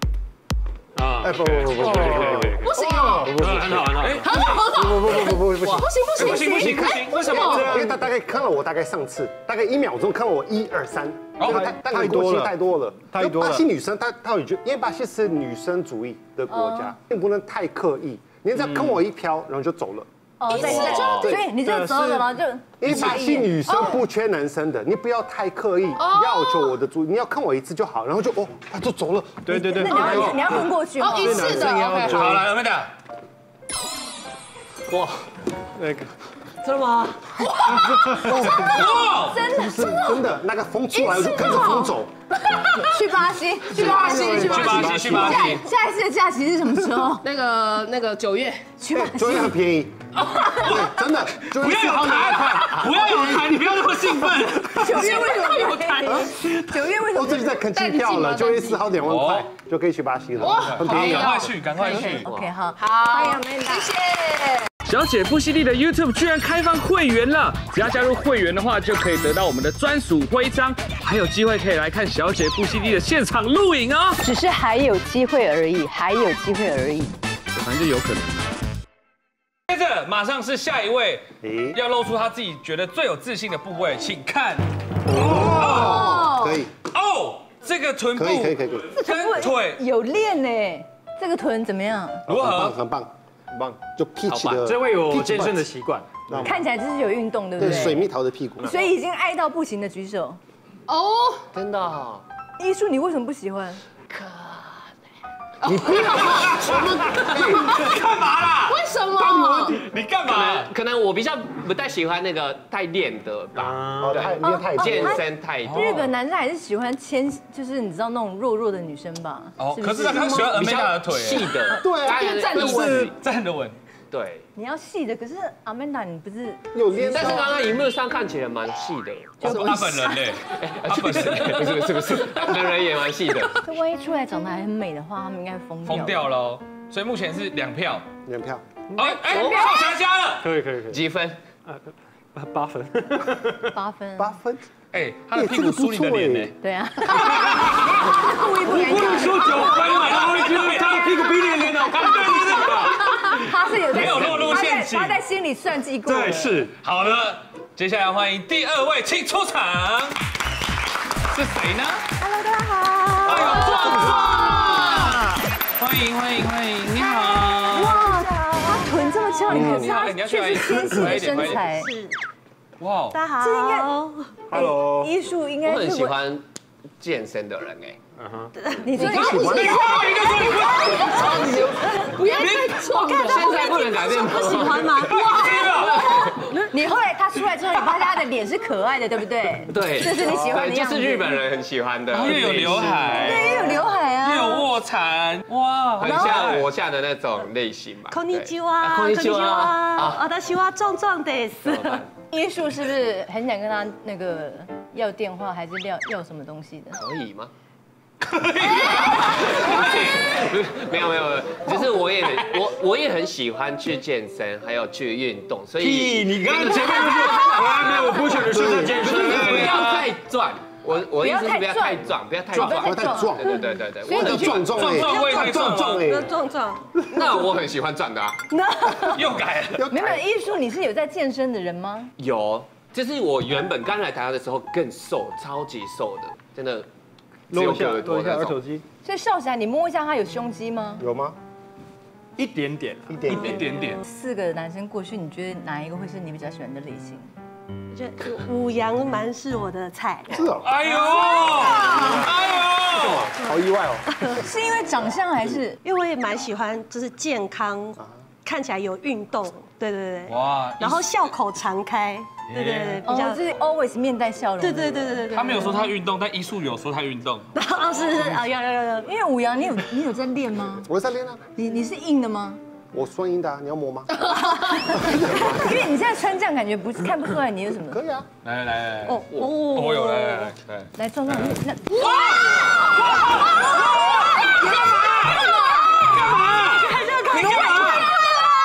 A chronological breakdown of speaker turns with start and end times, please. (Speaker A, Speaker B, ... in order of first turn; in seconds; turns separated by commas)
Speaker A: 0.9-4.3, Speaker B: 1.2-3.7, Speaker C: 2.6-3.5, Speaker D: 3.9-4.8, Speaker C: 4.2-7.7, Speaker B: 4.9-20.1, Speaker D: 6.2-7.9, Speaker D: 11.4-11.7, Speaker E: 11.4-12.6, Speaker E: 13.1-13.7, Speaker F: 16.5-16.9, Speaker F: 20.4-23.9, Speaker D: 20.5-21.3, Speaker B: 20.6-21.9, Speaker E: 21.4-22.3, Speaker B: 22.8-30.7, Speaker C: 26.0-26.6, Speaker E: 29.4-32.5, Speaker F: 29.5-31.8, Speaker C: 31.0-32.4, Speaker D: 32.0-32.9, Speaker G: 34.9-35.2, Speaker E: 35.8-36.1, Speaker G: 36.6-37.2, Speaker F: 38.2-40.2, Speaker B: 38.3-38.9, Speaker D: 38.6-39.4, Speaker B: 39.5-42.1, Speaker F: 40.9-41.9, Speaker F: 42.7-47.2, Speaker C: 43.7-45.5, Speaker B: 43.8-45.4, Speaker D: 44.3-45.6, Speaker C: 47.2-48.7, Speaker F: 48.8-49.5, Speaker B: 48.9-53.5, Speaker D: 51.5-56.6, Speaker F: 54.7-57.6, Speaker B: 57.1-61.6, Speaker D: 59.0-59.5, Speaker C: 60.4-62.2, Speaker D: 60.4-62.3, Speaker F: 62.0-63.9, Speaker D: 64.9-74.2, Speaker F: 74.2-77.1, Speaker D: 79.7-86.3, Speaker B: 81.4-81.8, Speaker B: 85.1-86.7, Speaker F: 85.9-86.5, Speaker D: 86.9-89.8, Speaker B: 88.2-88.9, Speaker F: 88.9-92.2, Speaker B: 92.3-93.1, Speaker D: 92.3-92.8, Speaker B: 94.0-95.7, Speaker A: 94.5-96.1, Speaker B: 96.3-96.6, Speaker F: 96.4-98.1, Speaker B: 97.6-98.8, Speaker F: 98.6-100.4, Speaker C: 100.9-101.5, Speaker G: 101.5-102.2, Speaker F: 102.6-103.8, Speaker G: 104.1-104.8, Speaker B: 105.6-106.8, Speaker C: 105.7-107.2, Speaker D: 107.2-110.7, Speaker C: 108.7-109.8, Speaker G: 110.3-116.0, Speaker A: 113.5-114.3, Speaker B: 114.0-115.2, Speaker F: 114.4-120.5, Speaker D: 115.6-116.1, Speaker D: 119.6-121.5, Speaker G: 120.1-123.1, Speaker B: 121.8-123.1, Speaker C: 122.1-123.1, Speaker D: 122.4-123.8, Speaker G: 124.1-124.5, Speaker F: 124.5-126.6, Speaker B: 126.7-127.6, Speaker G: 127.0-129.7, Speaker D: 129.4-131.9, Speaker B: 129.4-130.1, Speaker G: 130.5-133.6, Speaker F: 133.7-136.3, Speaker D: 135.8-138.1, Speaker B: 138.3-138.7, Speaker D: 138.9-140.4, Speaker F: 139.2-139.8, Speaker G: 139.3-139.6, Speaker A: 140.4-141.0, Speaker G: 140.9-141.4, Speaker A: 141.7-143.6, Speaker F: 143.7-144.3, Speaker B: 144.2-144.6, Speaker D: 144.9-146.5, Speaker B: 145.3-146.5, Speaker F: 146.6-150.1, Speaker D: 147.1-148.0, Speaker A: 148.7-152.9, Speaker D: 149.1-155.2, Speaker F: 152.1-156.6, Speaker A: 154.0-154.5, Speaker A: 156.1-156.7, Speaker D: 156.8-160.2, Speaker D: 161.3-162.1, Speaker F: 162.4-165.2, Speaker D: 163.2-165.2, Speaker D: 165.8-168.0, Speaker F: 167.7-171.9, Speaker D: 169.5-171.7, Speaker B: 169.5-169.9, Speaker B: 170.9-171.2, Speaker H: 171.3-172.1, Speaker D: 172.8-173.2, Speaker H: 173.1-174.3, Speaker F: 173.4-173.9, Speaker B: 174.5-175.1, Speaker F: 174.5-176.2, Speaker G: 175.6-176.4, Speaker G: 177.0-178.0, Speaker A: 178.2-178.5, Speaker H: 178.6-179.4, Speaker F: 178.8-180.1, Speaker B: 179.2-179.7, Speaker D: 179.3-181.6, Speaker H: 180.0-180.5, Speaker F: 180.9-181.2, Speaker H: 181.2-185.7, Speaker F: 182.2-183.1, Speaker D: 182.3-183.2, Speaker G: 183.1-186.4, Speaker D: 185.0-186.3, Speaker F: 186.7-191.3, Speaker G: 189.7-193.2, Speaker D: 192.1-196.7, Speaker F: 193.2-194.6, Speaker G: 196.0-200.2, Speaker H: 198.1-202.1, Speaker G: 201.6-202.1, Speaker F: 202.3-207.0, Speaker G: 207.0-207.5, Speaker D: 208.4-210.1, Speaker G: 208.7-224.8, Speaker D: 216.5-220.1, Speaker A: 218.3-219.6, Speaker B: 218.5-219.2, Speaker F: 221.2-223.4, Speaker B: 222.5-226.4, Speaker F: 224.1-224.6, Speaker D: 224.1-226.1, Speaker H: 225.0-226.8, Speaker G: 227.1-228.4, Speaker H: 228.5-229.4, Speaker D: 229.1-229.8, Speaker F: 229.9-232.1, Speaker G: 232.2-236.9, Speaker E: 237.5-238.8, Speaker G: 237.5-238.6, Speaker F: 239.0-241.0, Speaker B: 241.0-241.4, Speaker A: 242.4-243.4, Speaker B: 243.1-243.8, Speaker D: 243.2-244.0, Speaker F: 244.0-247.3, Speaker H: 247.9-252.3, Speaker B: 250.3-251.0, Speaker D: 250.6-253.3, Speaker B: 251.6-252.3, Speaker B: 252.9-254.1, Speaker H: 253.0-253.6, Speaker F: 254.4-255.8, Speaker H: 255.8-263.4, Speaker D: 260.3-261.1, Speaker D: 262.5-263.0, Speaker F: 263.0-265.2, Speaker H: 264.6-265.9, Speaker D: 265.2-267.5, Speaker H: 267.6-269.0, Speaker F: 269.0-270.9, Speaker B: 270.9-271.4, Speaker F: 271.6-272.6, Speaker B: 272.9-274.1, Speaker B: 275.1-275.6, Speaker F: 275.1-278.0, Speaker B: 277.9-278.3, Speaker D: 278.4-288.2, Speaker G: 279.3-279.6, Speaker F: 279.4-282.2, Speaker F: 285.5-286.1, Speaker F: 286.8-288.2